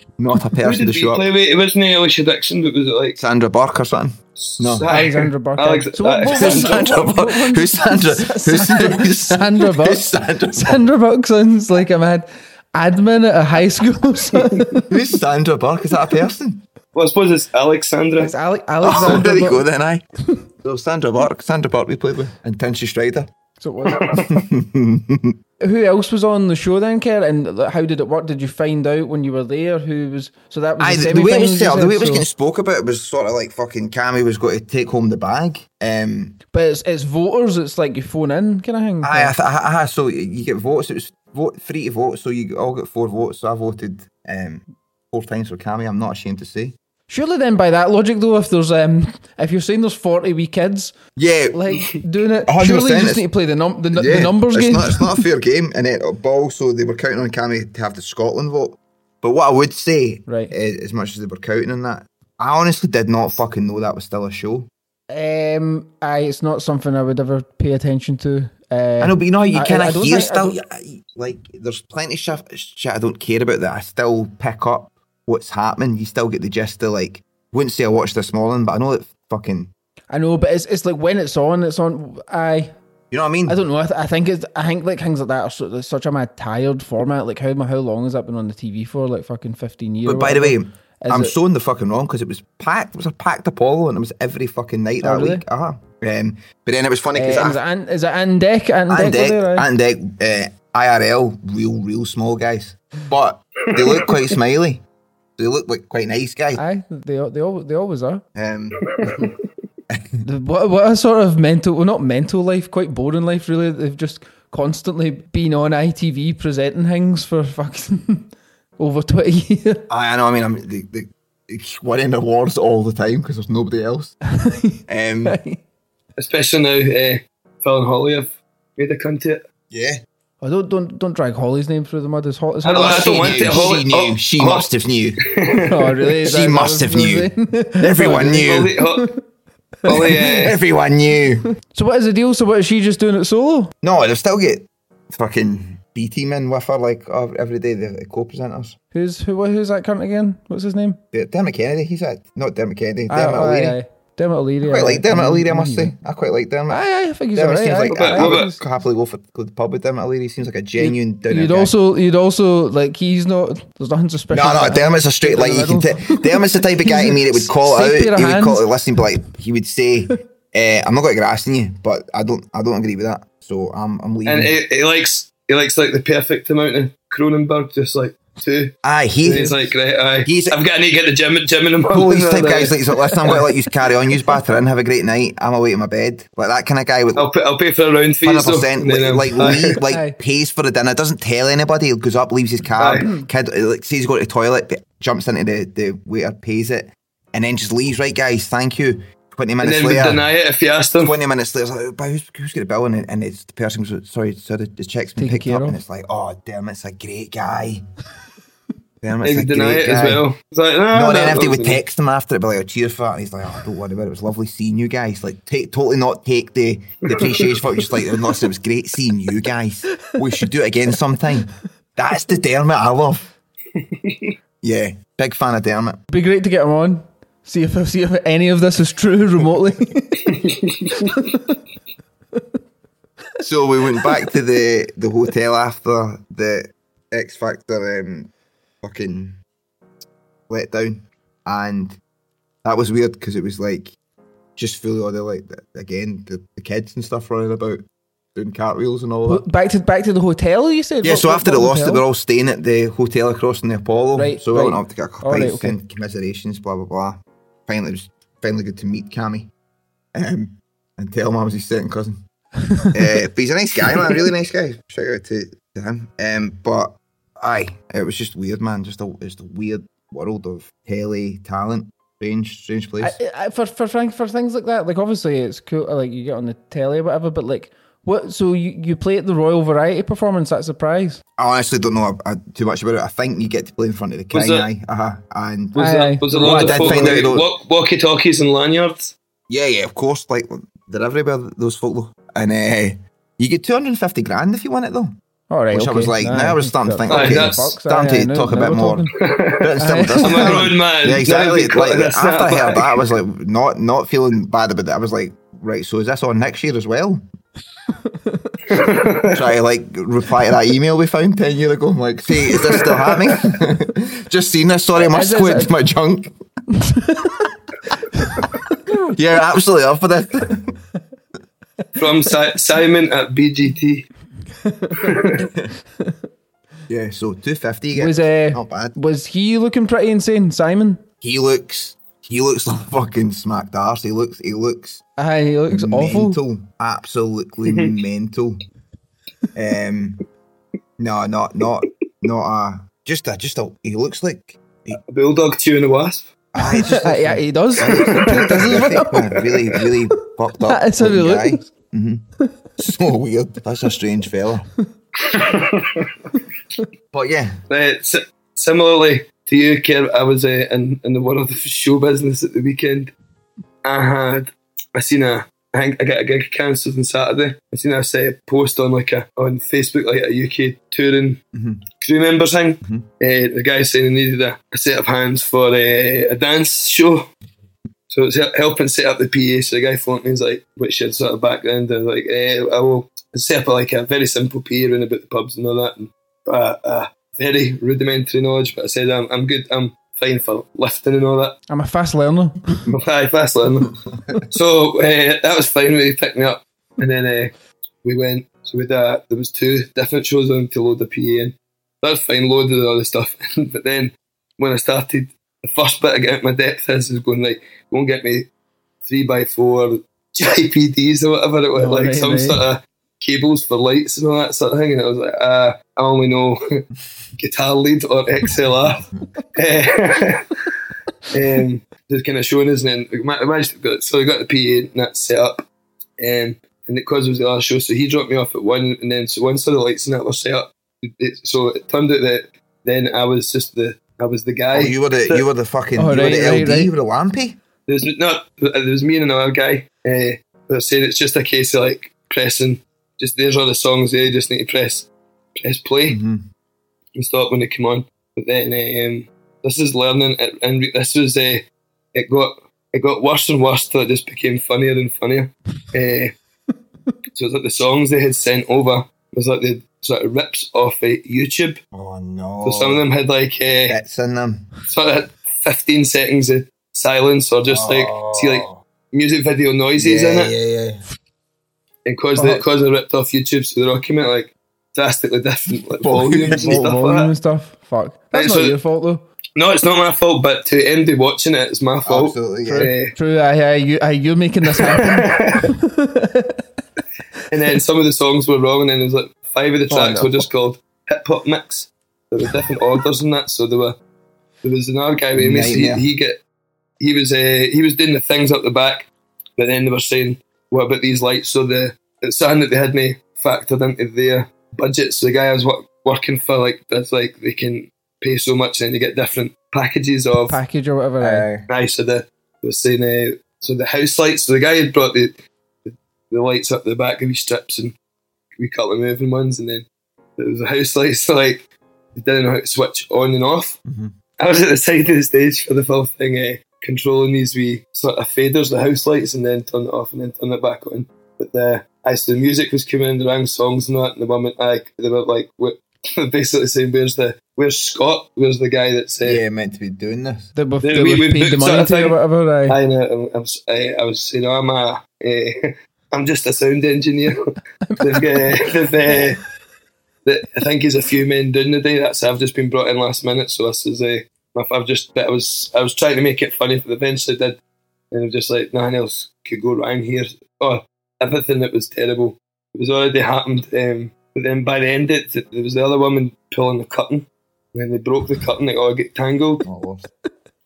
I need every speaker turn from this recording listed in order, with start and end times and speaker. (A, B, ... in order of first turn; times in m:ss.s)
0:00.2-0:01.3 A
0:00.6-0:03.2 B
0:03.2-0:04.9 A
0:04.4-0:07.2 B
0:04.9-0:14.9 C
0:06.3-0:10.8 A
0:14.9-0:16.6 A
0:16.9-0:18.3 B
0:18.2-0:19.6 C
0:18.8-0:20.0 A
0:18.9-0:19.2 B
0:20.6-0:23.3 A
0:23.6-0:24.2 C
0:24.2-0:25.4 A
0:25.6-0:32.2 C
0:30.8-0:36.4 A
0:36.5-0:39.3 C
0:39.0-0:46.7 A
0:47.1-0:50.9 C
0:51.2-0:51.6 A
0:51.5-0:55.2 C
0:52.5-0:53.2 A
0:53.9-1:04.7 A
1:00.3-1:00.5 C
1:05.1-1:10.6 C
1:09.0-1:19.7 A
1:20.1-1:22.8 C
1:23.1-1:23.6 A
1:23.5-1:31.4 C
1:30.0-1:37.6 A
1:35.0-1:35.4 C
1:37.1-1:39.7 C
1:38.9-1:44.8 A
1:43.8-1:44.2 B
1:45.4-1:46.6 A
1:46.6-1:48.2 C
1:48.4-1:49.3 A
1:49.0-1:49.3 B
1:49.9-1:50.2 A
1:50.2-1:59.8 C
1:59.9-2:04.1 A
2:04.3-2:05.6 C
2:04.9-2:05.4 A
2:06.2-2:09.4 B
2:09.7-2:10.0 A
2:10.4-2:13.7 C
2:12.6-2:14.7 B
2:12.7-2:15.2 A
2:15.2-2:15.8 B
2:15.6-2:19.2 C
2:16.2-2:18.7 A
2:18.3-2:19.1 B
2:19.9-2:20.6 B
2:19.9-2:21.5 A
2:21.7-2:23.7 C
2:23.8-2:28.8 A
2:28.9-2:31.0 C
2:31.1-2:33.8 A
2:33.1-2:35.9 C
2:34.6-2:41.7 A
2:36.7-2:38.6 C
2:37.9-2:38.5 B
2:40.8-2:48.7 C
2:44.3-2:54.6 A
2:54.3-3:03.4 B
2:58.8-2:59.5 A
2:59.3-2:59.7 C
3:00.2-3:00.6 A
3:01.9-3:07.3 A
3:07.2-3:09.8 B
3:08.2-3:20.3 A
3:09.8-3:10.2 C
3:12.8-3:13.0 B
3:13.0-3:13.3 C
3:19.6-3:21.2 B
3:21.0-3:27.8 A
3:25.2-3:25.8 C
3:29.0-3:30.2 A
3:29.2-3:31.8 B
3:30.9-3:43.3 A
3:37.1-3:37.5 B
3:44.0-3:44.3 B
3:44.6-3:46.0 A
3:46.1-3:50.4 C
3:50.4-3:50.9 B
3:51.1-3:51.4 C
3:53.4-3:58.3 A
3:58.8-3:59.4 A
4:00.5-4:02.0 A
4:02.6-4:03.9 A
4:04.6-4:07.8 A
4:08.4-4:09.4 A
4:09.3-4:12.0 C
4:11.0-4:19.5 A
4:14.2-4:15.8 C
4:20.1-4:22.2 A
4:22.7-4:22.9 C
4:22.9-4:33.2 A
4:33.0-4:41.2 C
4:41.4-4:45.8 A
4:44.3-4:44.7 B
4:45.7-4:49.1 B
4:45.8-4:47.2 C
4:46.3-4:47.5 A
4:49.5-4:55.1 A
4:55.5-4:59.1 C
4:55.7-5:07.2 A
4:57.1-4:57.6 B
4:59.2-4:59.7 B
4:59.8-5:00.7 C
5:00.2-5:03.0 B
5:08.0-5:08.8 C
5:08.7-5:09.4 B
5:09.3-5:16.3 A
5:15.0-5:15.7 C
5:16.9-5:17.4 C
5:18.2-5:18.4 C
5:18.9-5:20.8 A
5:22.0-5:24.1 B
5:24.6-5:25.2 C
5:25.0-5:25.4 B
5:25.4-5:25.7 A
5:26.9-5:28.9 A
5:27.9-5:31.0 C
5:31.2-5:35.0 A
5:35.2-5:36.4 C
5:35.7-5:38.6 A
5:37.7-5:38.0 B
5:39.6-5:40.2 A
5:41.0-5:45.0 A
5:45.1-5:46.3 B
5:46.5-5:52.2 A
5:46.6-5:49.1 C
5:48.2-5:49.4 B
5:50.7-5:51.7 C
5:52.8-5:54.7 A
5:55.2-5:56.1 B
5:57.1-5:57.6 A
5:57.7-6:03.1 B
6:03.8-6:11.4 B
6:11.5-6:11.8 A
6:12.0-6:17.3 B
6:18.1-6:31.6 B
6:31.7-6:32.9 C
6:32.9-6:33.9 B
6:34.5-6:37.5 B
6:38.0-6:48.5 B
6:49.0-6:56.8 B
6:51.8-6:52.6 C
6:57.4-6:59.0 B
6:59.6-7:00.5 B
7:01.3-7:05.6 B
7:06.2-7:15.4 B
7:14.7-7:17.6 A
7:16.0-7:16.9 C
7:17.9-7:26.2 B
7:26.1-7:26.4 A
7:27.2-7:31.6 B
7:32.2-7:36.3 B
7:37.4-7:41.8 B
7:41.9-7:43.0 A
7:42.6-7:44.0 B
7:43.9-7:44.7 A
7:44.9-7:50.5 B
7:47.7-7:48.8 A
7:50.0-7:51.0 A
7:52.1-7:57.3 B
7:52.4-7:52.6 C
7:56.0-7:56.9 A
7:56.5-7:59.2 C
7:58.3-7:58.8 B
7:59.6-8:03.2 B
8:02.1-8:02.9 A
8:02.6-8:06.6 C
8:04.8-8:05.7 B
8:07.5-8:14.0 B
8:09.9-8:10.4 C
8:14.6-8:16.4 B
8:15.4-8:16.1 A
8:17.0-8:30.6 B
8:30.5-8:31.5 C
8:31.2-8:31.7 A
8:31.7-8:37.9 B
8:38.6-8:39.9 B
8:40.4-8:43.8 B
8:43.9-8:44.1 A
8:44.4-8:59.4 B
8:59.2-9:00.5 A
9:00.6-9:02.8 C
9:00.8-9:09.4 B
9:07.9-9:08.2 C
9:10.2-9:17.6 B
9:18.1-9:29.6 B
9:29.6-9:30.1 A